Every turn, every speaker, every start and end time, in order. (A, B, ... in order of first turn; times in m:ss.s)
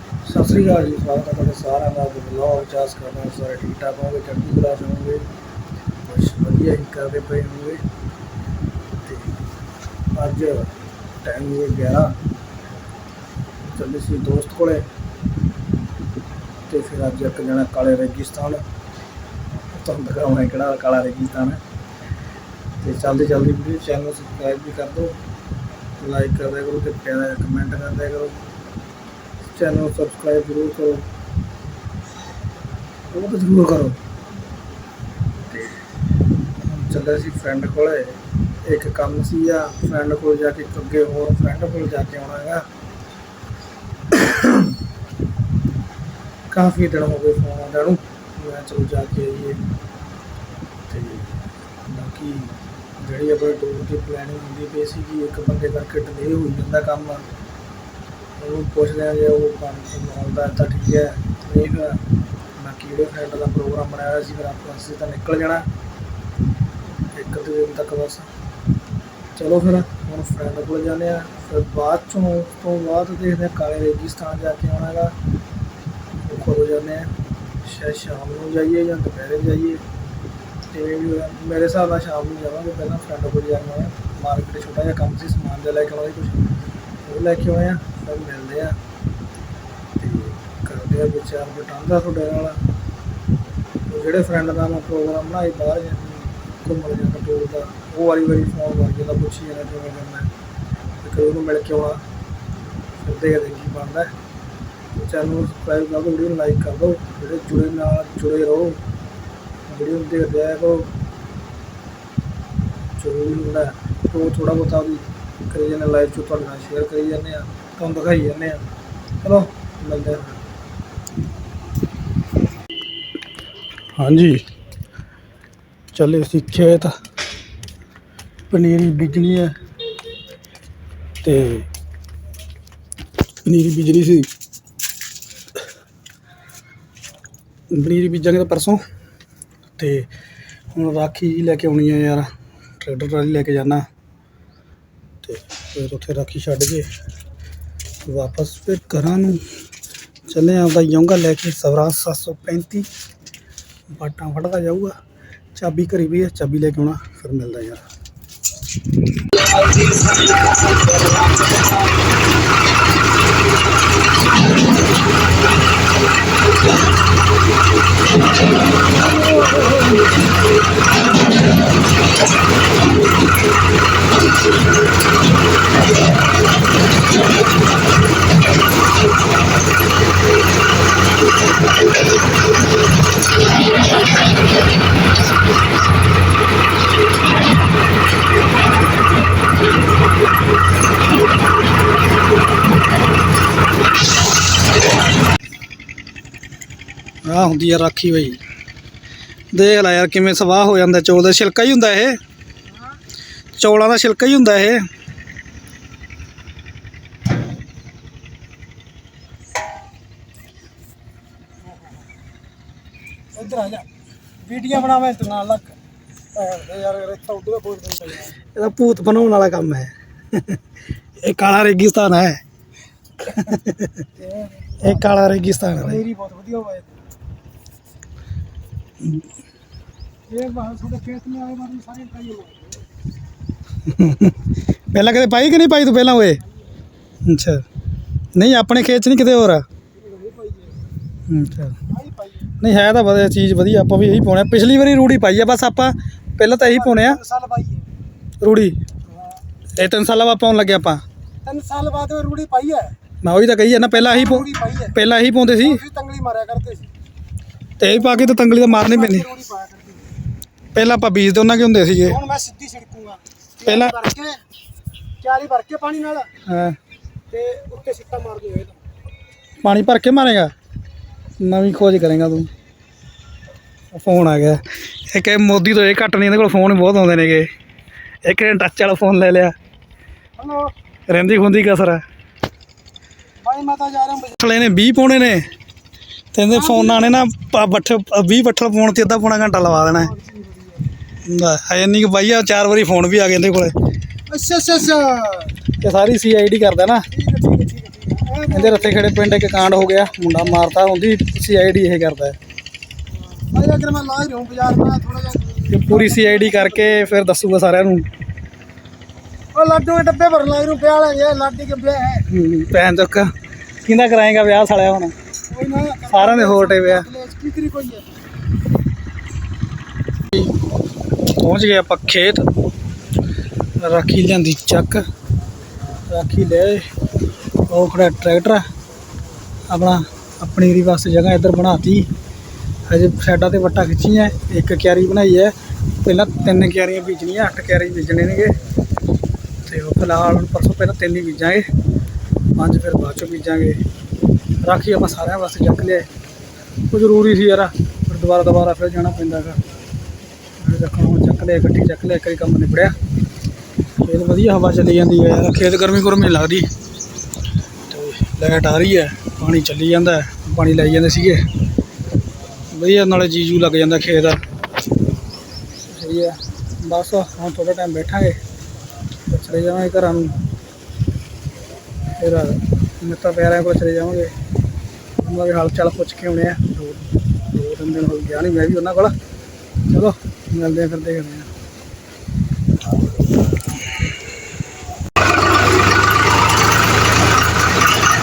0:00.2-0:05.3 A
0:06.0-0:07.8 A
0:09.0-0:09.4 A
0:10.1-0:12.2 A
0:13.7-0:14.8 A
0:16.7-0:18.6 A
0:19.7-0:21.6 A
0:22.8-0:25.2 A
0:26.0-0:28.4 A
0:29.4-0:31.1 A
0:33.1-0:34.0 A
0:36.6-0:42.6 A
0:44.1-0:44.7 A
0:46.5-0:49.6 A
0:50.9-0:51.3 A
0:51.8-0:57.3 A
0:58.4-1:02.0 A
1:02.6-1:05.7 A
1:07.1-1:08.3 A
1:09.3-1:15.1 A
1:16.2-1:17.1 A
1:17.6-1:19.8 A
1:20.7-1:26.5 A
1:27.0-1:28.8 A
1:30.0-1:32.6 A
1:33.9-1:40.3 A
1:41.0-1:42.0 A
1:43.0-1:44.1 A
1:44.9-1:48.8 A
1:49.7-1:50.9 A
1:53.0-1:58.6 A
1:59.2-2:00.4 A
2:04.0-2:04.4 A
2:05.9-2:06.9 A
2:08.5-2:09.5 A
2:11.2-2:11.7 A
2:13.4-2:14.3 A
2:17.7-2:18.8 A
2:19.8-2:20.1 A
2:20.7-2:22.3 A
2:22.8-2:23.8 A
2:25.2-2:26.9 A
2:28.0-2:29.4 A
2:30.3-2:32.9 A
2:33.9-2:35.0 A
2:35.6-2:37.8 A
2:41.2-2:41.5 B
3:17.2-3:18.4 A
3:19.5-3:22.2 A
3:23.5-3:24.8 A
3:33.3-3:33.8 B
3:34.4-3:35.8 B
3:36.3-3:38.4 B
3:38.5-3:40.6 A
3:41.2-3:42.4 A
3:43.2-3:44.0 A
3:44.2-3:45.0 B
3:44.8-3:46.0 A
3:45.8-3:46.9 B
3:50.3-3:52.8 B
3:53.8-3:54.4 A
3:54.9-3:56.4 A
3:57.2-3:57.6 A
3:58.3-3:59.6 A
4:00.0-4:00.7 B
4:01.3-4:01.8 A
4:01.9-4:02.5 B
4:02.6-4:07.2 A
4:06.6-4:07.9 B
4:08.4-4:08.8 A
4:09.8-4:11.0 A
4:11.4-4:12.9 B
4:13.2-4:15.8 A
4:13.9-4:15.0 B
4:15.6-4:16.9 B
4:17.8-4:19.3 A
4:18.0-4:20.0 B
4:20.7-4:22.2 A
4:22.0-4:24.4 B
4:23.6-4:23.9 A
4:25.2-4:26.3 B
4:26.4-4:26.8 A
4:27.3-4:28.8 B
4:29.6-4:30.5 A
4:31.4-4:32.5 A
4:33.9-4:37.5 A
4:38.2-4:39.5 A
4:40.4-4:40.7 B
4:41.1-4:42.0 A
4:43.4-4:44.4 B
4:44.4-4:45.5 A
4:46.3-4:50.1 A
4:46.5-4:47.2 B
4:50.0-4:50.9 B
4:51.2-4:53.7 A
4:54.3-4:55.5 B
4:55.8-4:57.1 A
4:57.1-4:59.1 B
4:58.5-5:02.4 A
4:59.8-5:00.3 B
5:03.3-5:07.1 B
5:05.7-5:08.1 A
5:09.5-5:12.3 B
5:12.3-5:13.3 A
5:13.8-5:15.1 A
5:15.5-5:18.1 B
5:16.1-5:17.1 A
5:21.3-5:22.5 A
5:23.8-5:25.0 A
5:26.1-5:26.9 A
5:27.7-5:28.6 A
5:29.7-5:32.1 A
5:32.9-5:38.5 A
5:39.6-5:41.6 A
5:42.6-5:43.8 A
5:44.6-5:46.1 A
5:46.9-5:49.6 A
5:50.6-5:53.0 A
5:54.0-5:56.7 A
5:57.9-6:01.4 A
6:02.7-6:04.4 A
6:05.9-6:08.4 A
6:09.3-6:10.4 A
6:12.2-6:14.3 A
6:15.2-6:19.1 A
6:19.9-6:21.5 A